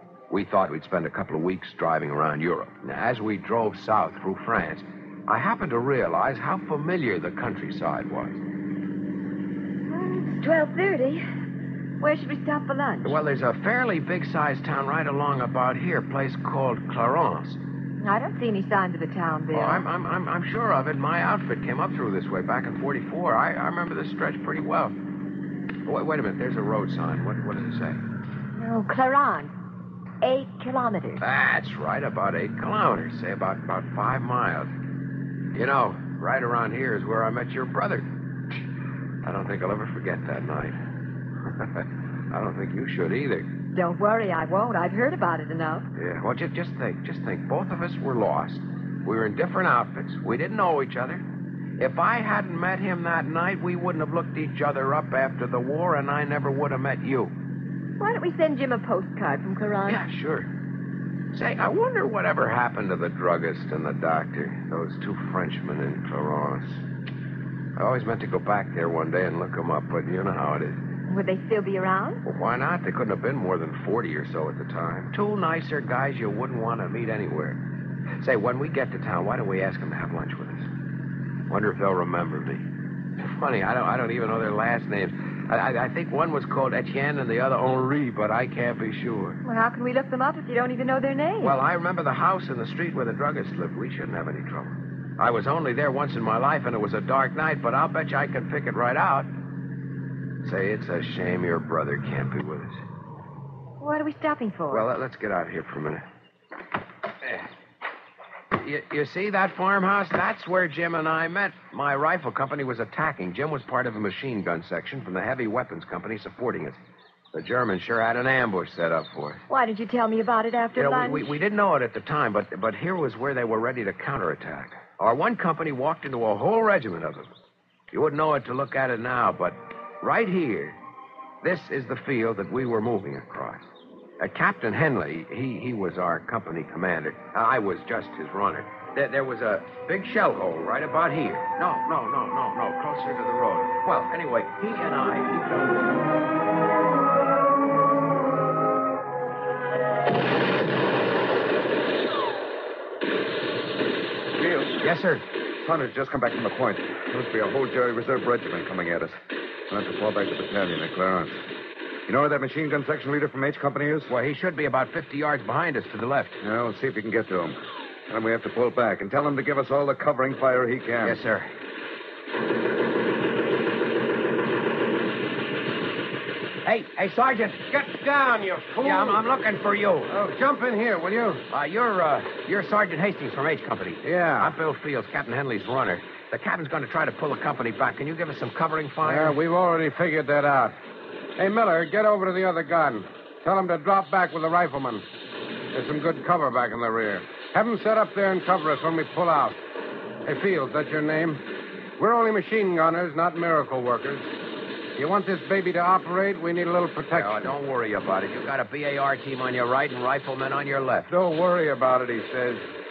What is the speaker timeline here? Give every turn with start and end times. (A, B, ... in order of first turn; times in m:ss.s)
0:00.3-0:08.4 A
0:09.9-0:11.2 B
0:12.0-0:13.2 B
0:13.0-0:17.6 A
0:18.0-0:19.9 B
0:19.5-0:25.0 A
0:25.9-0:28.0 A
0:28.6-0:29.5 B
0:30.2-0:31.2 B
0:31.2-0:34.7 A
0:35.6-0:38.1 A
0:39.2-0:40.8 A
0:41.8-0:43.5 A
0:43.7-0:45.9 B
0:46.0-0:51.3 A
0:51.8-0:57.3 A
0:58.0-1:00.0 B
0:59.8-1:00.5 A
1:01.3-1:06.8 A
1:07.8-1:10.8 A
1:11.1-1:12.2 B
1:12.2-1:17.6 A
1:18.2-1:20.7 A
1:21.5-1:22.7 A
1:23.2-1:29.4 A
1:29.4-1:31.6 B
1:31.4-1:39.3 A
1:40.4-1:42.8 A
1:43.8-1:44.8 B
1:44.7-1:46.0 A
1:48.6-1:56.8 A
1:57.3-1:59.4 A
1:59.5-2:01.4 B
2:00.8-2:07.3 A
2:07.9-2:10.8 A
2:11.4-2:26.0 A
2:34.8-2:35.2 A
2:35.6-2:39.2 C
2:39.7-2:41.4 C
2:42.1-2:44.1 C
2:44.1-2:46.4 A
2:46.4-2:47.6 C
2:48.1-2:51.2 C
2:51.0-2:51.5 A
2:56.6-2:57.7 A
2:57.7-2:59.2 D
2:58.8-3:00.1 A
3:00.1-3:01.4 D
3:01.5-3:09.4 A
3:04.0-3:04.6 D
3:09.0-3:10.8 D
3:11.4-3:15.0 D
3:15.7-3:19.6 D
3:20.2-3:21.4 D
3:22.0-3:24.3 D
3:25.0-3:27.6 D
3:27.1-3:31.1 A
3:31.1-3:32.6 D